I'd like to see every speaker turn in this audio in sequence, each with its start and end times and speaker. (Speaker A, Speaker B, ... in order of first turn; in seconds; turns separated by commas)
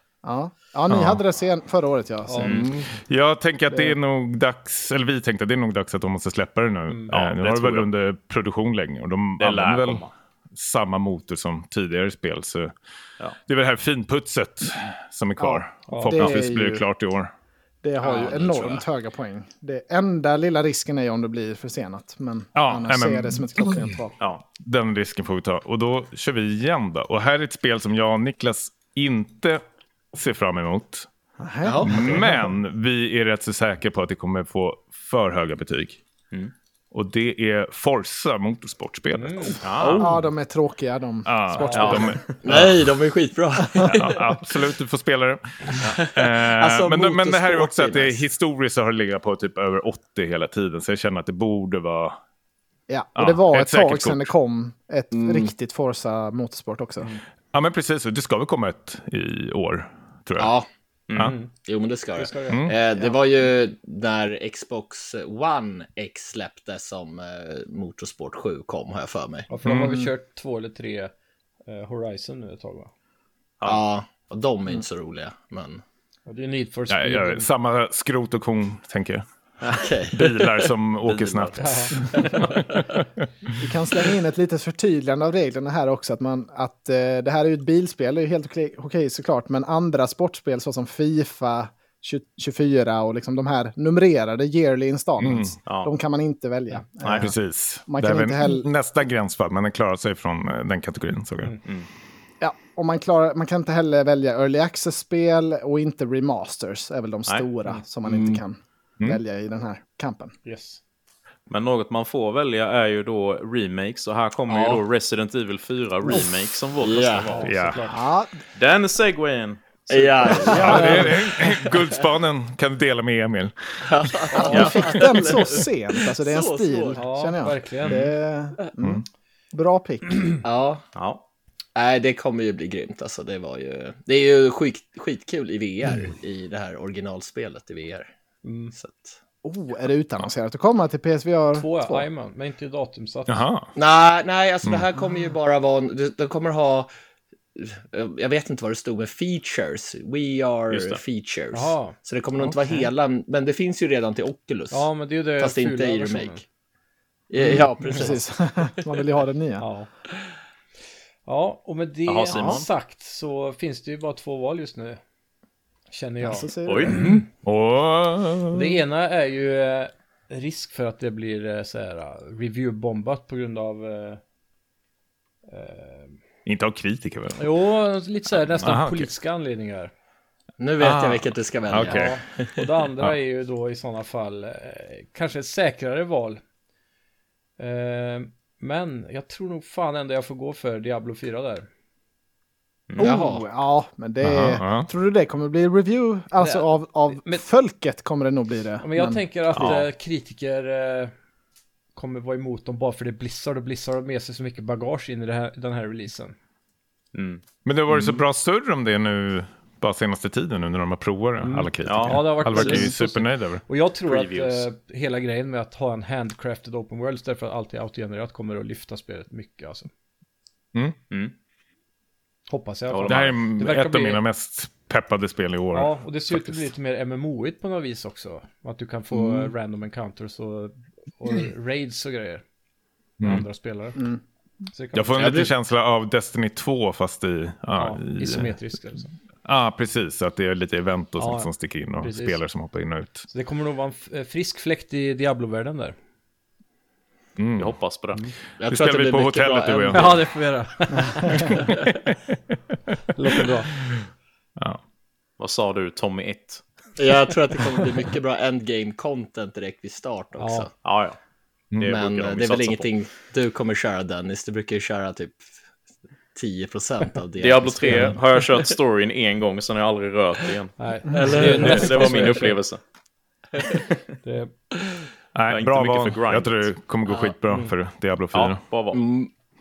Speaker A: 0.2-2.7, Speaker B: 0.9-1.2, Speaker C: 2.3-2.6, Speaker D: 2.4-2.7, Speaker E: 2.5-2.7, Speaker B: 2.9-12.7, Speaker A: 3.7-3.9, Speaker C: 6.9-7.1, Speaker D: 7.1-7.9, Speaker D: 9.4-10.1, Speaker B: 13.4-17.3, Speaker A: 15.4-16.8, Speaker C: 15.9-16.2, Speaker A: 17.8-24.1, Speaker E: 18.0-18.8, Speaker B: 22.5-23.8, Speaker B: 24.6-29.6, Speaker B: 30.1-31.1, Speaker A: 31.4-32.2, Speaker E: 31.6-32.1, Speaker B: 31.8-36.0, Speaker B: 36.9-40.0, Speaker C: 39.1-39.6, Speaker D: 39.6-40.1, Speaker A: 40.0-42.2, Speaker B: 41.2-42.9, Speaker C: 41.5-42.2, Speaker D: 41.7-42.2, Speaker E: 42.4-44.3, Speaker B: 43.9-52.2, Speaker E: 45.8-48.2, Speaker A: 52.9-57.1, Speaker B: 53.1-54.3, Speaker E: 55.1-55.5, Speaker B: 57.5-60.5, Speaker E: 60.4-60.7, Speaker D: 61.1-61.3, Speaker C: 61.2-61.5, Speaker E: 61.5-69.5, Speaker C: 62.1-62.6, Speaker B: 62.5-62.8, Speaker C: 69.5-71.1, Speaker B: 69.6-70.1, Speaker C: 71.7-72.9, Speaker E: 73.6-75.8, Speaker C: 76.3-77.5, Speaker B: 76.9-79.2, Speaker E: 79.6-80.7, Speaker B: 80.1-82.5, Speaker D: 81.0-82.2, Speaker C: 81.6-82.2, Speaker E: 82.0-82.8, Speaker A: 83.6-97.3, Speaker B: 95.2-95.6, Speaker D: 95.7-95.9, Speaker D: 97.0-97.3, Speaker B: 97.2-101.6, Speaker A: 97.9-98.7, Speaker A: 102.4-110.3, Speaker E: 108.0-108.4, Speaker C: 110.4-110.8, Speaker D: 111.5-117.5, Speaker E: 114.5-114.8, Speaker E: 116.8-117.4, Speaker C: 117.2-118.1, Speaker B: 117.4-117.9, Speaker A: 117.9-118.4, Speaker D: 118.5-120.9, Speaker E: 119.9-121.9, Speaker B: 120.5-123.8, Speaker C: 120.6-121.1, Speaker E: 123.8-127.0, Speaker A: 124.3-130.4, Speaker D: 124.5-124.8, Speaker C: 127.0-128.0, Speaker E: 130.4-130.8, Speaker D: 130.9-131.2, Speaker E: 131.8-138.1, Speaker C: 138.4-138.7, Speaker E: 138.7-139.2, Speaker A: 139.4-142.1, Speaker C: 141.5-143.4, Speaker B: 143.3-143.7, Speaker E: 143.8-146.9, Speaker E: 147.6-156.4, Speaker D: 150.7-151.0, Speaker C: 151.5-151.9, Speaker C: 154.7-156.4, Speaker E: 157.3-158.2, Speaker A: 157.4-159.6, Speaker C: 159.6-159.9, Speaker C: 161.2-165.0, Speaker D: 162.1-162.7, Speaker A: 162.3-162.6, Speaker C: 165.9-167.2, Speaker A: 166.2-167.2, Speaker D: 166.7-167.0, Speaker B: 167.4-168.8, Speaker C: 168.5-174.2, Speaker C: 175.5-176.1, Speaker B: 176.4-177.5, Speaker C: 177.4-179.9, Speaker B: 178.3-179.1, Speaker E: 180.6-182.7, Speaker B: 180.8-182.2, Speaker C: 181.8-186.4, Speaker C: 187.6-191.7, Speaker D: 192.9-193.2, Speaker E: 193.0-193.4, Speaker A: 193.0-199.2, Speaker B: 194.2-194.9, Speaker C: 196.4-197.4, Speaker C: 198.8-201.1, Speaker D: 199.6-199.9, Speaker C: 201.9-206.3, Speaker D: 207.1-208.2, Speaker B: 207.6-213.6, Speaker C: 211.4-219.9, Speaker D: 211.8-212.9, Speaker D: 214.1-214.7, Speaker C: 222.5-224.2, Speaker D: 222.9-223.4, Speaker B: 223.1-226.7, Speaker C: 225.7-232.4, Speaker B: 233.2-233.4, Speaker C: 233.2-234.0, Speaker C: 234.7-235.3, Speaker B: 234.9-238.5, Speaker E: 235.2-235.5, Speaker C: 237.7-239.1, Speaker B: 239.4-243.3, Speaker C: 241.2-242.4, Speaker C: 243.3-245.9, Speaker B: 247.4-247.8, Speaker D: 247.6-248.2, Speaker E: 248.6-250.2, Speaker B: 248.7-250.2, Speaker C: 249.9-251.7, Speaker B: 251.3-251.7, Speaker E: 251.7-251.9, Speaker C: 253.1-253.7, Speaker D: 255.4-256.6, Speaker E: 257.0-260.7, Speaker C: 260.4-260.7, Speaker D: 260.8-261.2, Speaker D: 261.8-262.9, Speaker E: 261.9-265.4, Speaker E: 266.3-268.7, Speaker D: 267.4-272.8, Speaker C: 267.8-268.2, Speaker C: 270.8-272.6, Speaker E: 271.1-272.4, Speaker C: 274.2-274.5, Speaker B: 275.3-278.6, Speaker D: 275.5-276.7, Speaker D: 278.3-279.0, Speaker E: 278.9-279.3